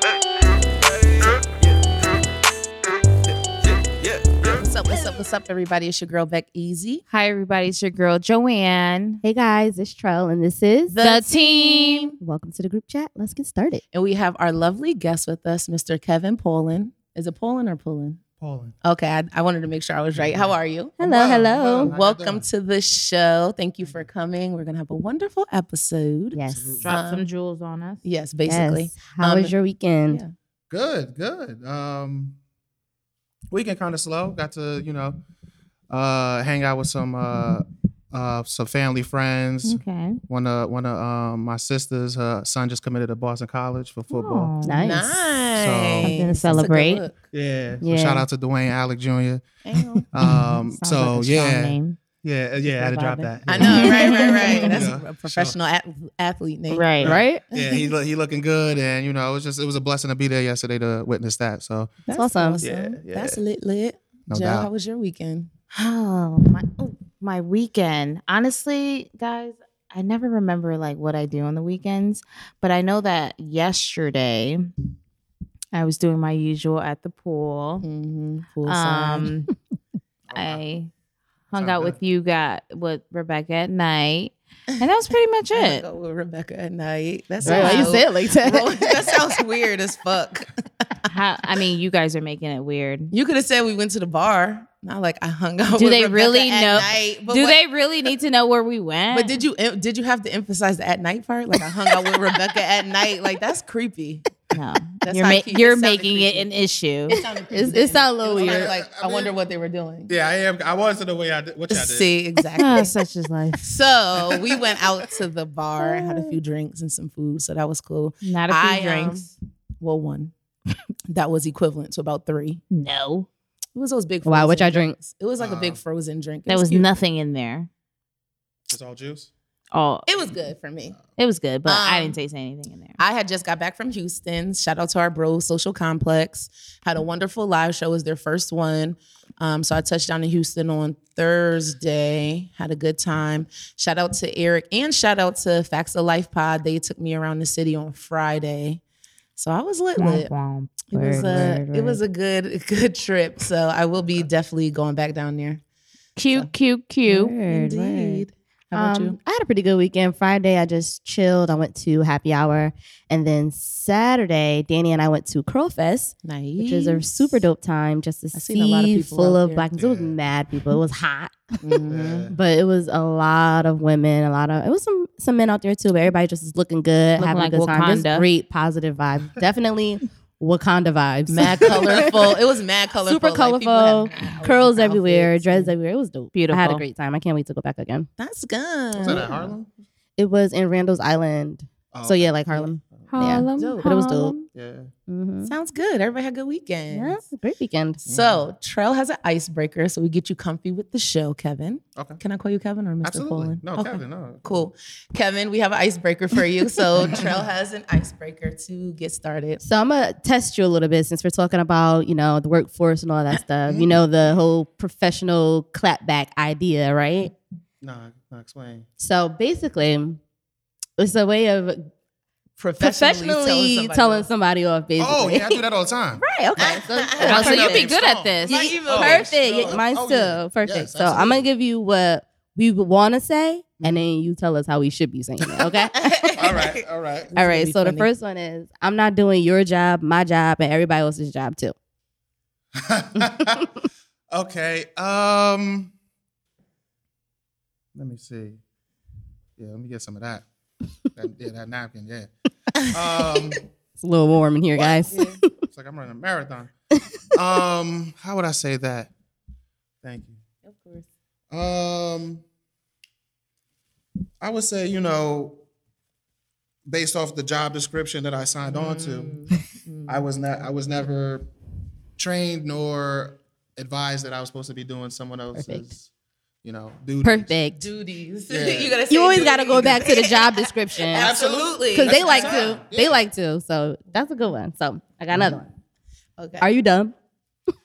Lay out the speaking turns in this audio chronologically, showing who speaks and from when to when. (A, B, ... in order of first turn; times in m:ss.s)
0:04.4-0:07.0 A
0:07.1-0:09.2 B
0:09.2-0:11.0 C
0:10.9-0:12.1 A
0:11.0-0:12.1 B
0:12.2-0:13.8 C
0:13.9-0:18.2 A
0:18.4-0:18.8 D
0:18.8-0:27.2 A
0:20.1-0:20.5 D
0:21.0-0:21.9 C
0:21.5-0:22.5 D
0:26.3-0:26.8 C
0:26.5-0:26.9 D
0:26.8-0:28.0 B
0:28.0-0:29.5 A
0:28.5-0:30.2 C
0:30.7-0:32.4 D
0:33.5-0:35.2 D
0:35.9-0:44.5 D
0:39.6-0:40.2 B
0:44.1-0:44.8 B
0:44.6-0:45.2 C
0:44.8-0:47.3 A
0:45.5-0:46.7 D
0:46.0-0:47.0 B
0:47.3-0:49.5 D
0:47.8-0:48.2 C
0:49.6-0:50.0 A
0:50.1-0:55.6 D
0:50.2-0:52.0 B
0:53.2-0:54.7 C
0:53.5-0:57.9 A
0:53.6-0:54.7 B
0:56.7-0:57.2 B
0:57.0-1:02.0 D
0:57.0-0:57.4 C
1:02.0-1:05.5 A
1:02.1-1:02.6 C
1:02.6-1:03.4 D
1:04.3-1:04.7 D
1:05.7-1:14.7 B
1:15.7-1:17.8 B
1:17.8-1:19.3 A
1:18.6-1:19.5 B
1:20.3-1:20.6 D
1:20.3-1:20.9 B
1:21.5-1:25.8 B
1:21.6-1:22.0 D
1:25.5-1:31.0 A
1:27.4-1:29.0 C
1:27.4-1:27.7 D
1:27.4-1:28.0 B
1:31.1-1:33.1 B
1:33.1-1:37.6 A
1:35.8-1:39.4 B
1:39.1-1:44.2 A
1:44.5-1:47.2 B
1:45.0-1:46.5 A
1:47.1-1:50.1 A
1:47.1-1:48.7 C
1:48.3-1:49.3 D
1:50.1-1:52.1 D
1:51.7-1:52.9 A
1:52.6-1:53.6 B
1:53.6-2:00.3 A
1:54.2-1:54.9 D
1:55.8-1:56.2 C
1:58.2-1:59.2 B
2:01.1-2:02.6 A
2:02.7-2:03.3 B
2:03.7-2:06.9 A
2:04.2-2:05.0 C
2:05.4-2:05.8 D
2:06.5-2:07.7 B
2:08.7-2:09.3 D
2:09.7-2:10.0 B
2:10.0-2:11.0 A
2:11.2-2:13.0 B
2:11.6-2:12.2 A
2:13.0-2:28.8 A
2:29.4-2:30.3 A
2:30.0-2:32.0 B
2:30.9-2:35.6 A
2:34.0-2:34.2 D
2:36.2-2:37.3 B
2:37.0-3:02.3 C
2:37.4-2:39.2 A
2:46.2-2:47.4 A
2:48.3-2:49.7 A
2:49.7-2:50.2 D
2:51.6-2:52.3 A
2:51.8-2:52.4 D
2:57.2-2:58.3 B
3:01.3-3:05.7 A
3:03.0-3:08.1 C
3:06.3-3:06.8 B
3:08.2-3:09.5 A
3:08.9-3:09.7 D
3:10.2-3:14.3 C
3:11.9-3:13.1 D
3:13.1-3:14.5 B
3:13.5-3:13.9 A
3:14.5-3:14.9 D
3:15.1-3:15.5 C
3:15.4-3:17.2 A
3:16.9-3:18.0 C
3:18.0-3:29.6 A
3:18.1-3:18.4 D
3:23.0-3:24.5 D
3:27.0-3:27.4 D
3:29.6-3:37.3 C
3:33.7-3:34.0 D
3:37.8-3:38.9 D
3:39.0-3:40.2 C
3:41.0-3:41.9 C
3:42.6-3:44.3 A
3:42.8-3:45.6 C
3:45.0-3:51.5 D
3:46.2-3:47.8 C
3:46.6-3:47.8 A
3:47.2-3:48.6 B
3:48.4-3:49.8 A
3:48.5-3:56.5 C
3:55.9-3:58.1 A
3:56.4-3:57.3 D
3:57.3-4:01.7 C
4:02.8-4:03.7 D
4:04.3-4:05.9 D
4:07.9-4:08.6 D
4:09.6-4:10.4 D
4:11.1-4:12.3 D
4:12.8-4:13.7 D
4:14.0-4:15.5 C
4:14.8-4:15.0 D
4:15.1-4:15.4 A
4:15.7-4:16.7 D
4:17.3-4:19.1 D
4:20.0-4:20.4 D
4:20.6-4:21.0 A
4:21.5-4:22.4 D
4:24.4-4:25.6 D
4:26.9-4:29.4 D
4:28.7-4:30.2 A
4:30.1-4:31.5 D
4:32.2-4:36.1 D
4:35.5-4:35.9 C
4:36.6-4:37.6 D
4:37.2-4:37.8 C
4:37.7-4:42.8 A
4:38.5-4:39.0 D
4:39.1-4:41.3 C
4:39.7-4:40.0 D
4:41.1-4:43.2 D
4:41.9-4:45.7 C
4:45.3-4:45.6 D
4:46.4-4:46.7 A
4:46.6-4:47.1 C